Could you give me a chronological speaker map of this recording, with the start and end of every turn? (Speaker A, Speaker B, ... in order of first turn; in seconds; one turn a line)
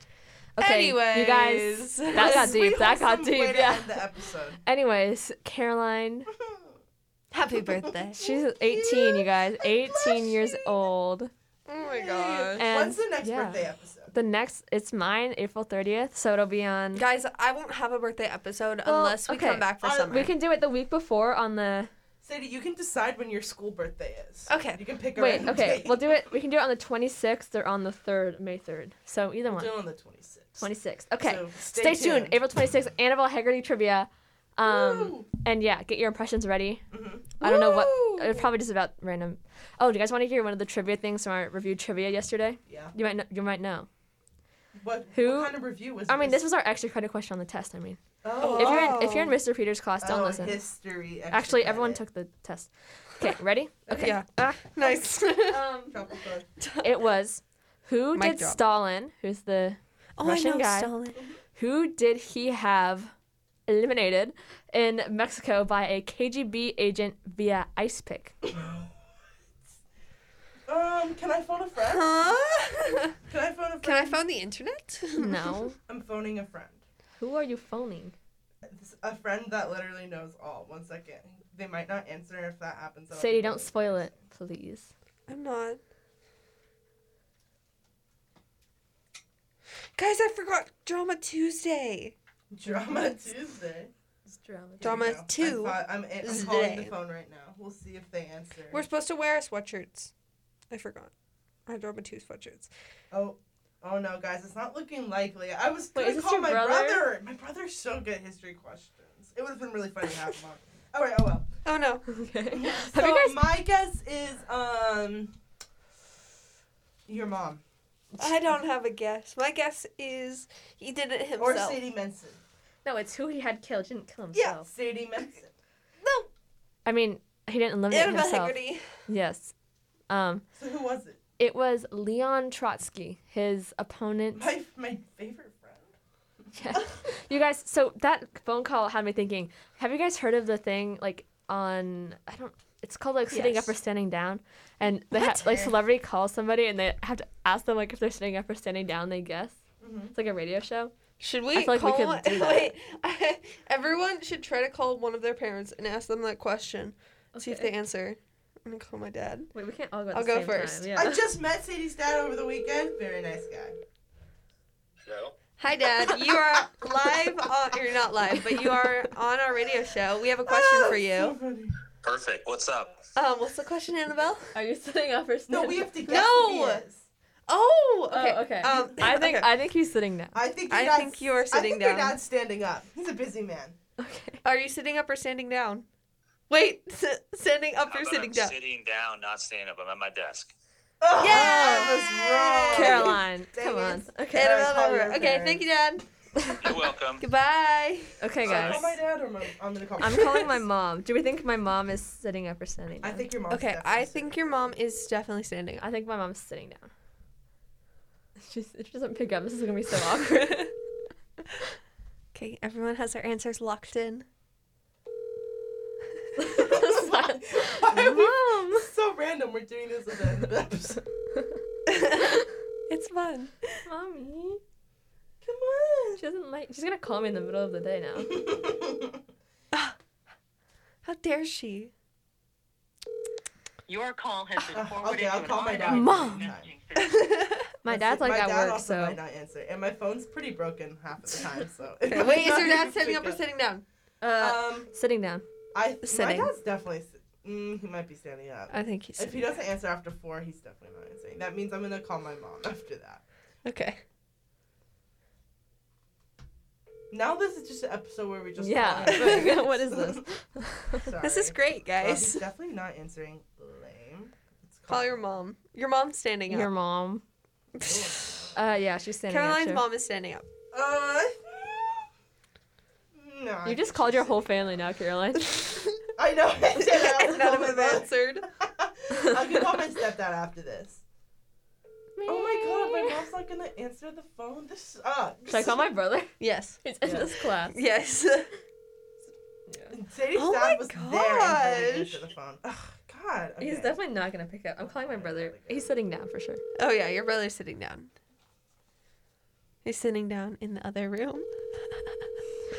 Speaker A: 0.6-4.0
Speaker B: 0.6-2.6
Speaker C: 2.1-4.6
Speaker A: 4.6-6.3
Speaker C: 6.3-6.7
Speaker B: 7.3-8.2
Speaker C: 7.7-10.7
Speaker A: 8.2-11.3
Speaker B: 11.7-12.7
Speaker C: 11.8-14.1
Speaker A: 12.6-17.0
Speaker B: 16.9-20.3
Speaker A: 18.9-21.9
Speaker C: 19.8-20.2
Speaker C: 22.2-26.3
Speaker B: 24.5-24.8
Speaker A: 25.2-29.7
Speaker C: 29.5-32.4
Speaker A: 30.6-36.8
Speaker C: 34.6-35.3
Speaker C: 36.9-37.3
Speaker A: 37.4-43.9
Speaker B: 37.4-38.5
Speaker C: 42.7-42.9
Speaker C: 44.8-46.4
Speaker A: 45.1-50.6
Speaker C: 48.2-49.3
Speaker B: 48.4-49.4
Speaker C: 50.0-52.0
Speaker A: 51.3-54.2
Speaker C: 53.9-54.2
Speaker B: 54.0-55.7
Speaker A: 55.4-56.2
Speaker C: 55.9-56.5
Speaker B: 56.6-56.9
Speaker A: 56.8-63.1
Speaker B: 58.1-58.6
Speaker B: 60.2-61.2
Speaker A: 63.7-68.4
Speaker C: 68.4-69.0
Speaker C: 70.7-72.2
Speaker B: 71.8-73.2
Speaker C: 73.3-74.2
Speaker B: 73.8-75.6
Speaker A: 75.2-75.8
Speaker C: 75.9-76.8
Speaker A: 77.2-78.2
Speaker C: 78.7-84.2
Speaker A: 83.1-84.9
Speaker B: 85.3-85.8
Speaker B: 90.0-92.2
Speaker C: 92.5-93.9
Speaker A: 94.3-95.2
Speaker C: 94.8-98.8
Speaker B: 94.8-96.9
Speaker B: 98.7-100.1
Speaker B: 100.7-101.1
Speaker B: 101.7-102.7
Speaker C: 103.1-111.5
Speaker A: 106.0-107.1
Speaker B: 111.7-112.1
Speaker A: 112.1-113.5
Speaker C: 112.5-115.3
Speaker C: 117.1-117.6
Speaker B: 118.2-121.8
Speaker C: 121.4-122.4
Speaker A: 122.8-124.7
Speaker B: 124.3-124.6
Speaker C: 124.7-125.5
Speaker B: 126.0-126.3
Speaker A: 126.8-129.5
Speaker B: 127.9-128.9
Speaker A: 130.1-130.4
Speaker C: 130.6-131.2
Speaker A: 131.4-134.5
Speaker C: 134.3-135.9
Speaker A: 136.5-149.6
Speaker C: 143.3-143.8
Speaker C: 145.2-145.8
Speaker C: 149.8-150.1
Speaker A: 150.1-150.9
Speaker B: 151.2-159.5
Speaker A: 151.5-152.7
Speaker A: 157.3-157.7
Speaker A: 159.5-161.2
Speaker B: 160.1-160.9
Speaker C: 160.9-163.8
Speaker D: 165.1-165.4
Speaker B: 165.6-171.4
Speaker C: 166.4-166.6
Speaker C: 170.4-171.8
Speaker D: 172.0-173.0
Speaker B: 173.2-174.6
Speaker A: 174.5-176.2
Speaker C: 175.5-177.1
Speaker B: 176.1-176.9
Speaker B: 177.5-179.5
Speaker A: 178.1-180.4
Speaker C: 180.3-183.8
Speaker B: 180.7-182.2
Speaker A: 184.0-184.4
Speaker B: 184.4-185.9
Speaker B: 186.5-188.6
Speaker D: 187.9-190.5
Speaker C: 191.0-195.7
Speaker B: 191.2-193.2
Speaker A: 191.2-192.0
Speaker A: 192.7-194.5
Speaker B: 194.3-196.1
Speaker D: 196.6-197.2
Speaker B: 197.2-198.2
Speaker A: 198.2-198.9
Speaker D: 198.4-198.9
Speaker C: 198.4-200.6
Speaker A: 200.0-203.3
Speaker C: 203.0-204.4
Speaker B: 203.5-205.8
Speaker A: 205.8-206.9
Speaker A: 208.4-210.7
Speaker B: 212.3-214.3
Speaker A: 216.4-218.9
Speaker C: 216.5-221.0
Speaker B: 221.9-223.8
Speaker A: 223.9-224.6
Speaker C: 225.4-226.2
Speaker A: 226.2-228.4
Speaker C: 228.2-229.2
Speaker B: 231.0-231.9
Speaker E: 233.9-237.4
Speaker C: 234.7-236.7
Speaker A: 235.8-236.5
Speaker B: 237.0-237.7
Speaker A: 237.8-239.2
Speaker C: 237.8-243.4
Speaker B: 242.0-244.3
Speaker A: 244.2-245.4
Speaker C: 244.4-244.9
Speaker C: 245.7-253.2
Speaker B: 246.0-246.5
Speaker B: 248.7-249.6
Speaker B: 253.7-254.0
Speaker C: 257.1-260.2
Speaker A: 258.6-261.1
Speaker C: 261.0-265.2
Speaker B: 261.2-262.4
Speaker B: 264.9-266.7
Speaker A: 266.5-267.2
Speaker B: 267.7-268.4
Speaker C: 267.8-268.6
Speaker A: 268.5-269.8
Speaker B: 269.3-270.5
Speaker C: 270.7-272.1
Speaker C: 273.1-274.7
Speaker A: 273.6-275.9
Speaker C: 276.2-281.0
Speaker B: 276.9-278.5
Speaker B: 282.2-283.1
Speaker C: 282.3-285.9
Speaker A: 285.5-287.8
Speaker B: 286.4-288.5
Speaker A: 289.7-289.9
Speaker C: 289.9-294.0
Speaker B: 290.3-292.2
Speaker A: 293.6-296.6
Speaker C: 294.8-295.9
Speaker B: 296.8-298.1
Speaker B: 299.9-302.3